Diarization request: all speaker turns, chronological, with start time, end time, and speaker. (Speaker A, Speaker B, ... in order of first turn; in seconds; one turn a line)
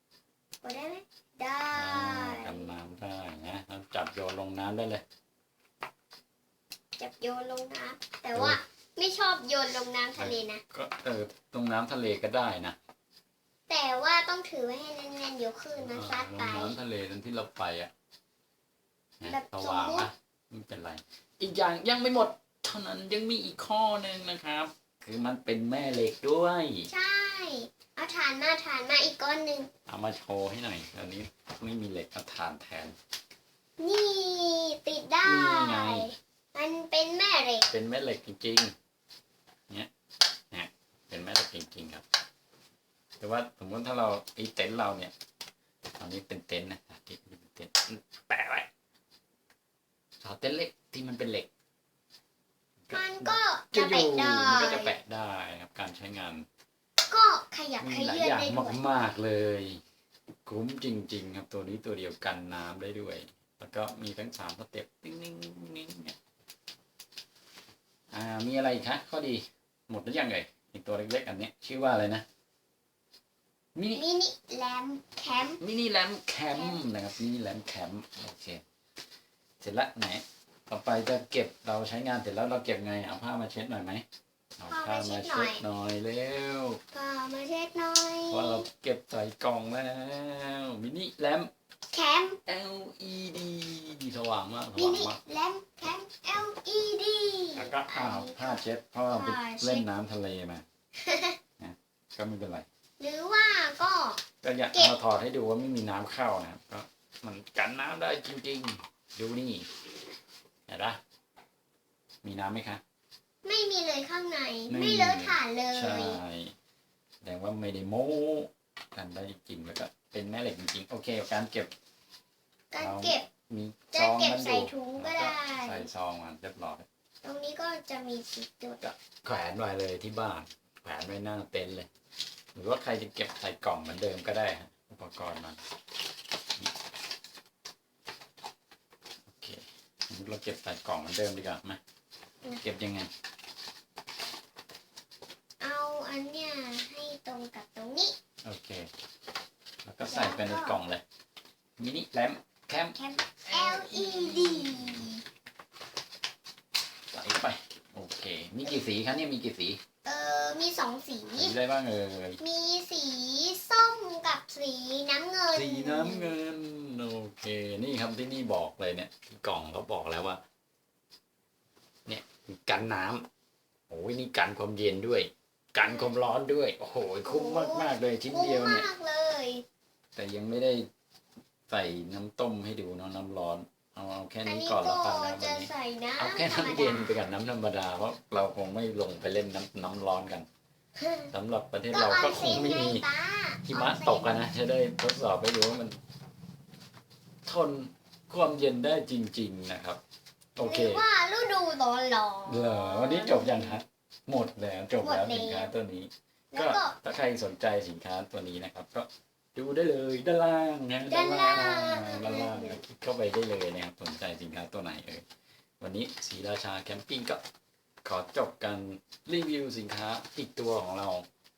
Speaker A: 0.6-2.7
Speaker B: 1.7-5.0
Speaker A: 7.0-10.6
Speaker B: 10.2-12.8
Speaker A: 13.7-16.8
Speaker B: 15.8-17.9
Speaker B: 19.2-26.9
Speaker A: 19.3-20.1
Speaker A: 26.9-29.7
Speaker B: 29.9-33.0
Speaker A: 33.8-37.7
Speaker B: 35.2-36.1
Speaker B: 37.7-38.8
Speaker B: 40.5-42.0
Speaker B: 43.2-45.1
Speaker B: 46.0-48.7
Speaker B: 50.2-51.5
Speaker B: 52.8-56.5
Speaker A: 52.9-54.9
Speaker A: 57.1-58.8
Speaker B: 57.8-59.8
Speaker B: 60.5-66.2
Speaker B: 68.1-72.2
Speaker B: 73.8-74.0
Speaker A: 74.0-75.6
Speaker B: 75.6-78.6
Speaker A: 76.5-76.8
Speaker B: 79.6-84.0
Speaker B: 84.6-86.8
Speaker A: 84.7-85.7
Speaker A: 86.9-88.7
Speaker B: 88.3-91.5
Speaker A: 91.9-92.4
Speaker B: 92.5-95.2
Speaker A: 94.8-99.9
Speaker B: 97.6-100.7
Speaker A: 101.0-101.4
Speaker B: 101.6-102.7
Speaker A: 103.0-105.0
Speaker B: 104.4-109.7
Speaker B: 110.7-111.0
Speaker B: 112.2-112.8
Speaker A: 113.4-116.2
Speaker B: 114.7-116.5
Speaker B: 117.2-121.7
Speaker A: 122.7-123.3
Speaker B: 122.8-126.9
Speaker A: 123.9-125.9
Speaker A: 127.2-128.8
Speaker B: 128.8-131.9
Speaker B: 132.6-135.6
Speaker B: 139.3-141.8
Speaker B: 142.6-143.1
Speaker A: 145.6-148.2
Speaker B: 148.4-148.9
Speaker B: 149.8-151.0
Speaker A: 150.1-150.8
Speaker B: 151.8-155.1
Speaker A: 152.9-155.2
Speaker B: 157.1-159.8
Speaker A: 160.1-161.6
Speaker B: 161.3-162.4
Speaker A: 162.4-166.4
Speaker B: 165.6-170.4
Speaker B: 172.1-173.3
Speaker B: 173.9-178.9
Speaker A: 175.8-176.2
Speaker A: 177.2-179.7
Speaker B: 180.2-180.9
Speaker B: 181.7-190.5
Speaker A: 184.4-187.2
Speaker A: 191.0-191.3
Speaker B: 191.3-193.1
Speaker A: 191.9-194.4
Speaker B: 193.7-196.0
Speaker B: 197.4-200.0
Speaker B: 200.6-201.0
Speaker A: 200.6-203.8
Speaker B: 202.5-215.2
Speaker A: 205.0-205.7
Speaker A: 206.5-207.0
Speaker A: 211.1-212.8
Speaker B: 215.8-217.4
Speaker B: 218.0-221.3